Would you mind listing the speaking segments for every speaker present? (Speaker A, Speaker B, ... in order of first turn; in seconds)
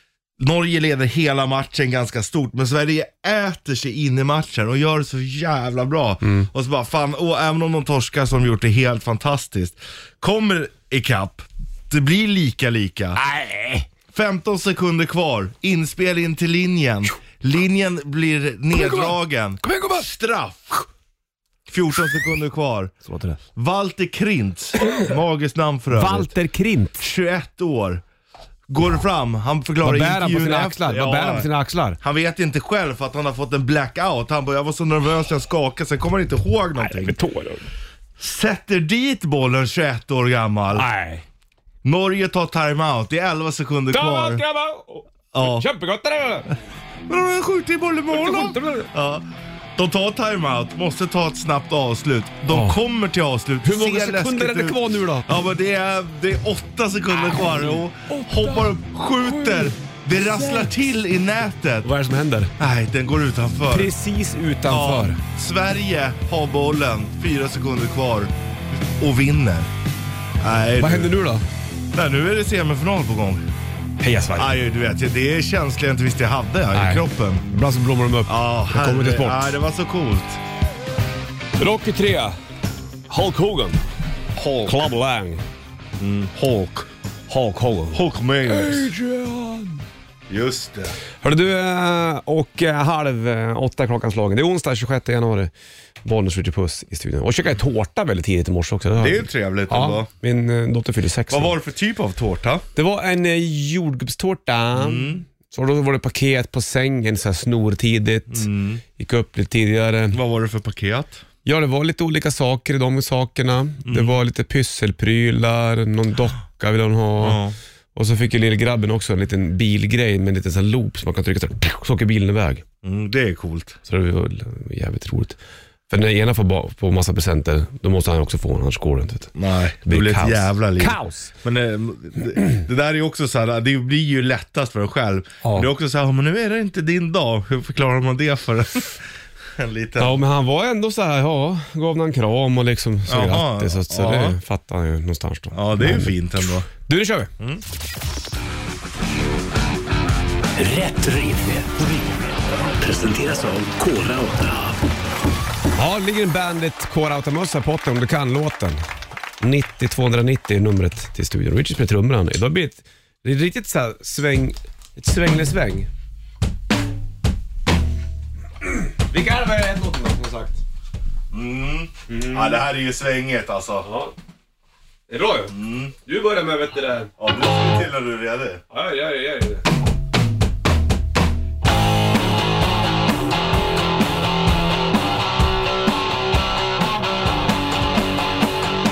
Speaker A: 0.4-13.2, 14.1-20.9, 21.7-22.9, 23.5-26.3, 27.0-28.0, 28.7-31.5, 32.0-37.1, 38.2-40.9, 41.8-44.4, 45.3-45.7, 47.1-49.2, 49.8-61.9, 62.6-63.9, 64.7-68.3, 69.0-69.7, 70.4-71.1, 71.9-73.5, 74.4-77.4, 78.3-80.4, 84.3-84.8, 86.0-86.9, 87.9-88.9, 90.3-91.0, 99.0-100.1, 101.3-102.6, 104.8-105.2, 108.3-108.8, 110.1-111.2, 113.8-114.2, 117.2-117.5, 122.8-123.8, 129.3-139.0, 139.6-140.2, 143.1-144.4, 145.5-146.7, 171.3-173.9, 175.5-175.9, 177.2-178.6
Speaker B: 6.2-6.5, 13.2-13.9, 18.7-20.1, 23.0-23.4, 25.9-27.1, 29.8-32.0, 36.8-37.7, 40.7-41.2, 43.9-46.5, 48.1-48.9, 52.5-52.8, 53.6-55.3, 57.1-60.7, 61.8-62.5, 63.7-65.2, 70.8-71.4, 74.0-74.6, 76.7-79.5, 81.6-82.4, 83.1-83.8, 84.6-85.4, 87.3-89.8, 91.2-95.5, 96.0-101.5, 102.8-110.2, 111.4-117.4, 117.9-122.6, 123.9-125.4, 125.9-131.3, 135.4-135.7, 140.0-146.2, 146.7-147.3, 155.8-158.8, 159.4-165.9, 168.6-170.6, 172.1-172.6, 173.8-174.1, 175.1-177.1, 178.7-179.7
Speaker C: 150.5-154.8